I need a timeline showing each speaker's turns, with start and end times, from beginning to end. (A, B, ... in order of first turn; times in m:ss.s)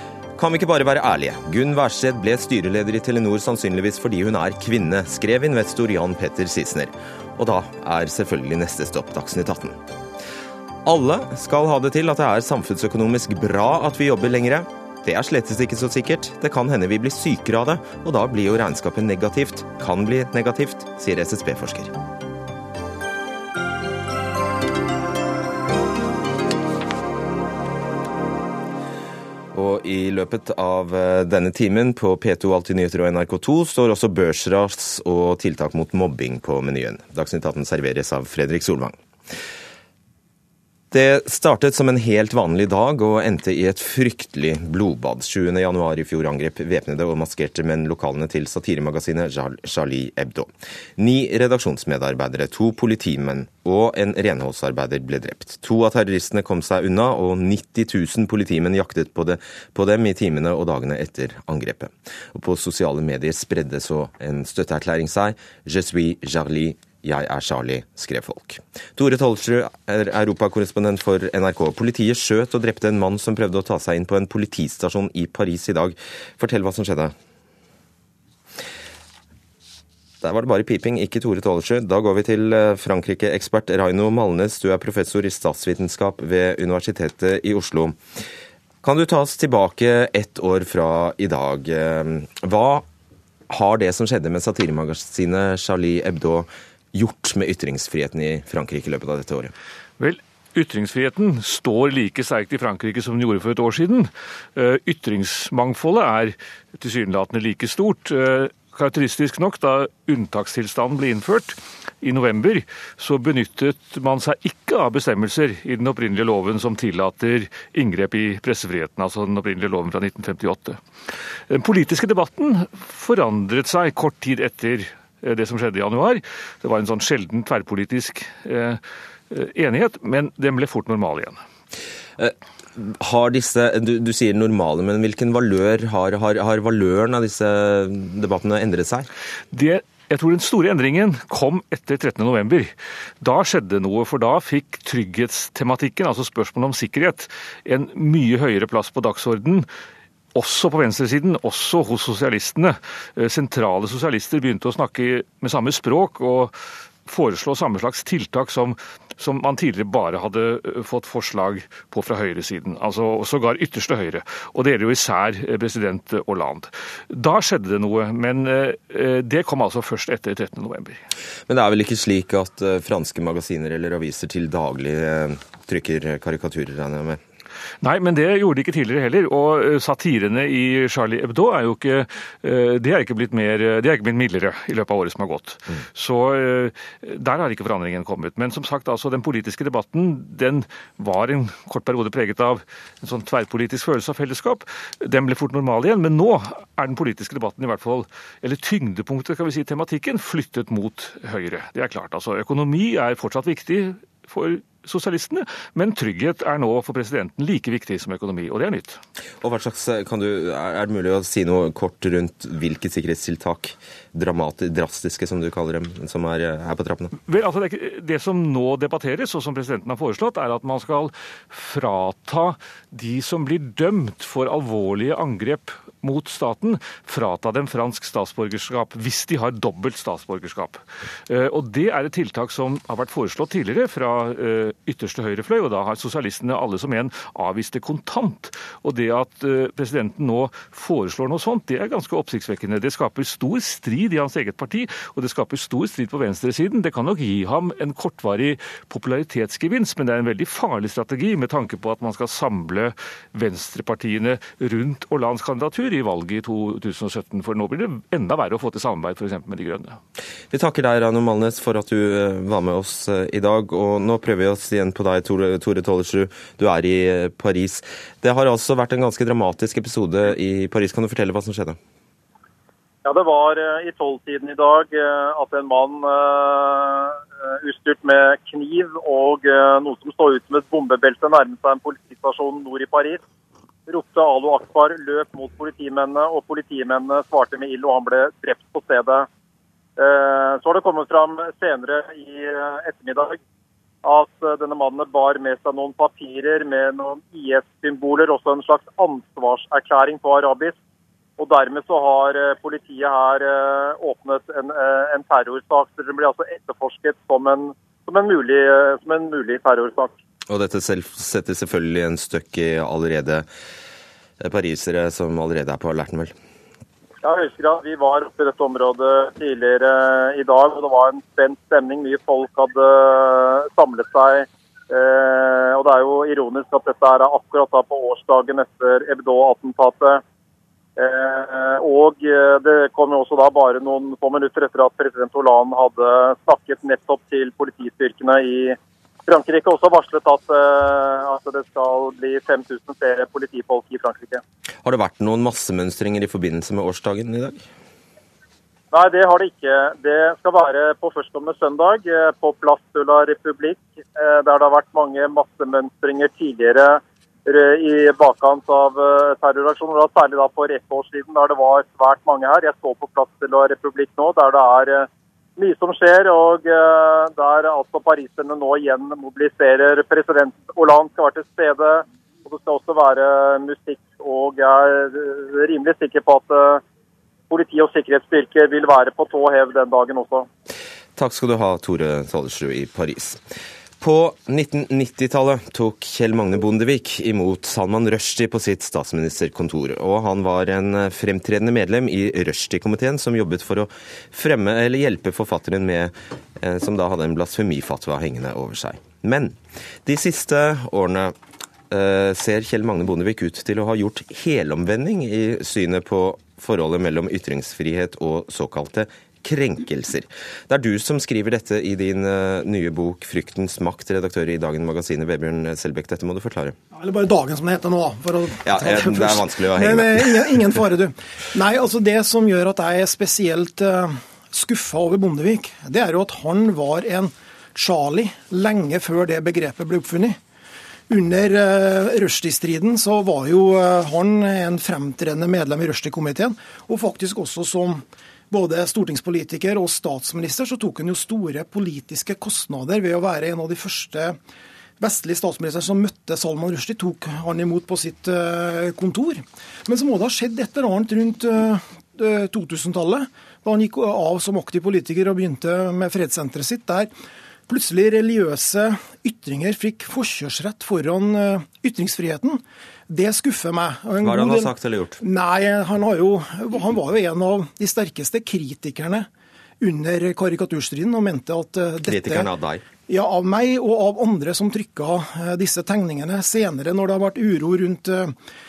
0:00.4-0:09.8 A
0:10.8-0:21.9 A
0:29.5-0:39.0 A
0:40.9-1:17.1 A
1:20.2-1:28.0 A
1:28.8-1:32.8 A
1:33.5-1:39.5 A
1:40.0-2:00.8 B
2:01.5-2:11.4 B
2:12.2-2:19.1 A
2:19.5-2:29.7 B
2:30.3-2:51.0 B
2:51.5-2:57.2 A
2:57.8-3:29.0 B
3:29.4-3:37.1 A
3:37.2-4:20.0 B
4:20.5-4:31.8 A
4:33.0-4:43.2 C
4:43.9-4:49.3 C
4:50.0-4:53.4 C
4:54.0-5:00.7 C
5:01.4-5:10.1 C
5:10.5-5:13.4 A
5:14.4-5:16.3 A
5:17.2-5:30.2 C
5:31.0-5:44.4 C
5:44.8-5:47.6 A
5:48.9-6:05.1 C
6:05.6-6:16.8 C
6:17.5-6:20.5 C
6:21.2-6:23.4 A
6:24.0-6:41.3 A
6:41.9-6:56.8 A
6:56.9-7:10.4 D
6:58.6-7:00.5 A
7:11.1-7:24.4 D
7:25.0-7:37.1 D
7:37.7-7:49.3 D
7:44.2-7:45.2 A
7:49.8-7:52.5 D
7:52.0-7:52.8 A
7:53.1-7:58.3 D